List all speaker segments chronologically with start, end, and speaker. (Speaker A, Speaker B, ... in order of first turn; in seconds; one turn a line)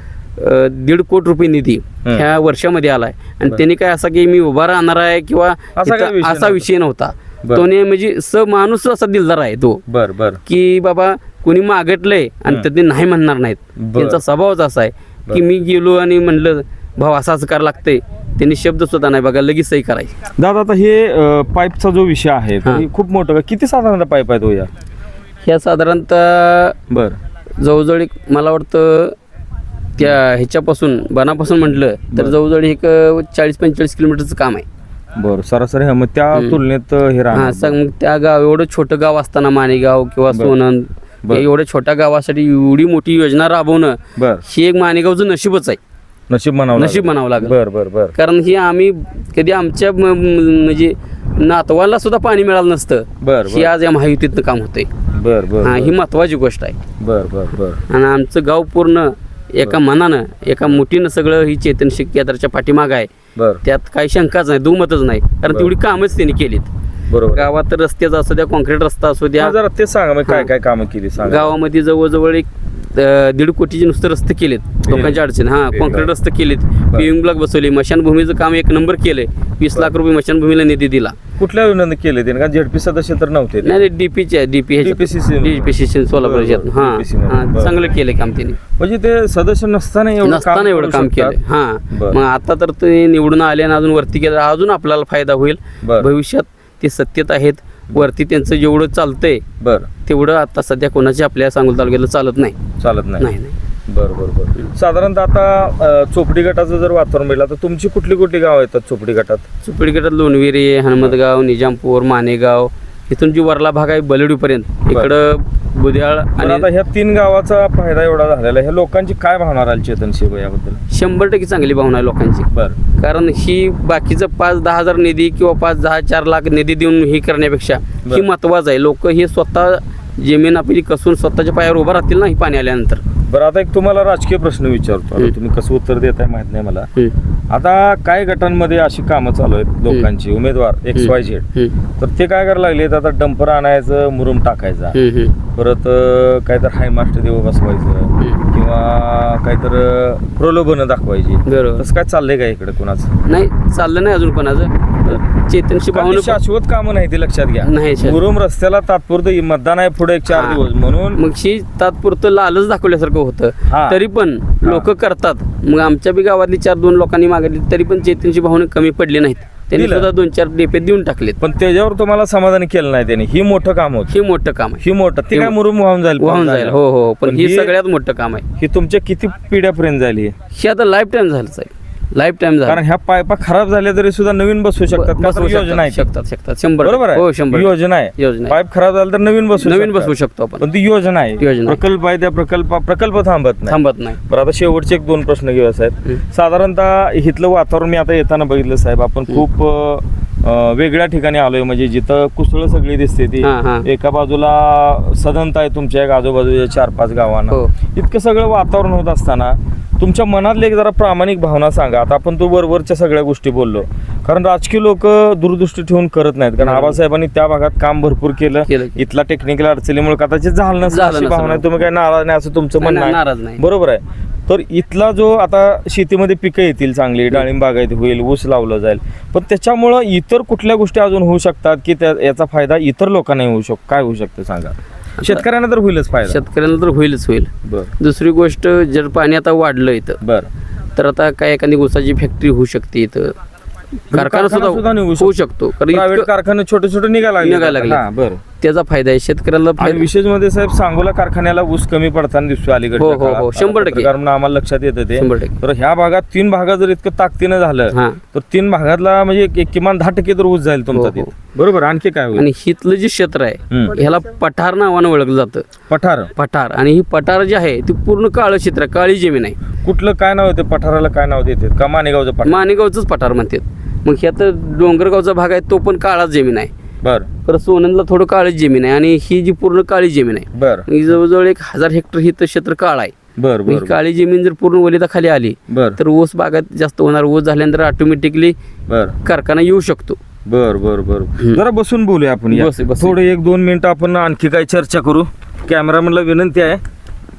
Speaker A: 0.4-9.8
Speaker B: 5.8-6.7
Speaker B: 9.9-10.4
Speaker A: 10.4-20.1
Speaker B: 13.8-14.2
Speaker B: 20.4-24.7
Speaker A: 25.4-26.8
Speaker B: 26.9-27.2
Speaker A: 27.6-29.1
Speaker A: 30.0-34.6
Speaker B: 35.1-37.8
Speaker A: 36.3-36.6
Speaker A: 37.3-45.8
Speaker B: 40.3-40.5
Speaker B: 44.1-44.4
Speaker B: 46.3-48.1
Speaker A: 46.8-47.5
Speaker A: 48.1-54.9
Speaker B: 53.2-53.7
Speaker B: 55.1-55.9
Speaker A: 55.6-56.8
Speaker B: 57.0-57.8
Speaker A: 57.9-63.1
Speaker B: 63.4-63.6
Speaker A: 63.6-66.7
Speaker B: 65.5-65.7
Speaker B: 67.1-67.5
Speaker A: 67.3-69.5
Speaker B: 69.4-71.5
Speaker A: 71.2-81.2
Speaker B: 74.8-76.1
Speaker B: 81.4-83.8
Speaker A: 83.6-88.6
Speaker B: 84.8-87.8
Speaker B: 88.8-91.4
Speaker A: 90.2-99.4
Speaker B: 95.8-96.1
Speaker B: 99.6-99.9
Speaker A: 100.0-102.6
Speaker B: 102.8-103.2
Speaker A: 103.2-103.6
Speaker B: 103.9-109.4
Speaker A: 109.6-116.7
Speaker B: 116.3-120.8
Speaker A: 120.9-133.0
Speaker B: 133.3-136.9
Speaker B: 137.5-141.5
Speaker A: 140.9-141.7
Speaker B: 142.0-144.9
Speaker A: 144.9-145.3
Speaker B: 145.5-153.1
Speaker A: 148.2-148.5
Speaker A: 151.4-151.8
Speaker A: 153.2-156.4
Speaker B: 155.9-161.2
Speaker A: 157.6-158.2
Speaker A: 160.3-160.6
Speaker A: 161.1-171.4
Speaker B: 163.7-164.0
Speaker B: 169.7-170.1
Speaker B: 171.4-174.1
Speaker A: 174.1-175.5
Speaker B: 174.8-177.7
Speaker A: 176.2-178.4
Speaker B: 178.6-180.3
Speaker A: 180.5-182.8
Speaker B: 182.7-186.0
Speaker A: 184.9-188.6
Speaker B: 186.8-236.4
Speaker A: 189.6-190.6
Speaker A: 191.4-191.8
Speaker A: 193.7-194.2
Speaker A: 203.4-203.8
Speaker A: 216.6-217.0
Speaker A: 218.7-219.0
Speaker A: 220.9-221.7
Speaker A: 222.8-223.6
Speaker A: 235.2-235.4
Speaker A: 236.2-240.2
Speaker B: 237.6-237.9
Speaker B: 240.2-240.5
Speaker A: 240.9-243.3
Speaker B: 244.1-245.3
Speaker A: 244.1-246.3
Speaker B: 245.9-248.4
Speaker A: 247.4-248.0
Speaker A: 248.6-250.1
Speaker B: 249.8-262.5
Speaker A: 253.0-254.1
Speaker A: 255.2-255.5
Speaker A: 257.9-258.2
Speaker A: 260.9-261.3
Speaker A: 262.3-265.6
Speaker B: 263.7-264.0
Speaker B: 265.9-266.3
Speaker A: 266.3-269.6
Speaker B: 269.8-272.7
Speaker A: 272.4-276.7
Speaker B: 277.0-277.3
Speaker A: 277.4-283.1
Speaker B: 280.5-280.9
Speaker B: 283.4-283.9
Speaker A: 283.7-288.6
Speaker B: 285.7-286.0
Speaker B: 288.9-289.2
Speaker A: 289.2-290.2
Speaker B: 290.4-296.8
Speaker A: 292.5-293.1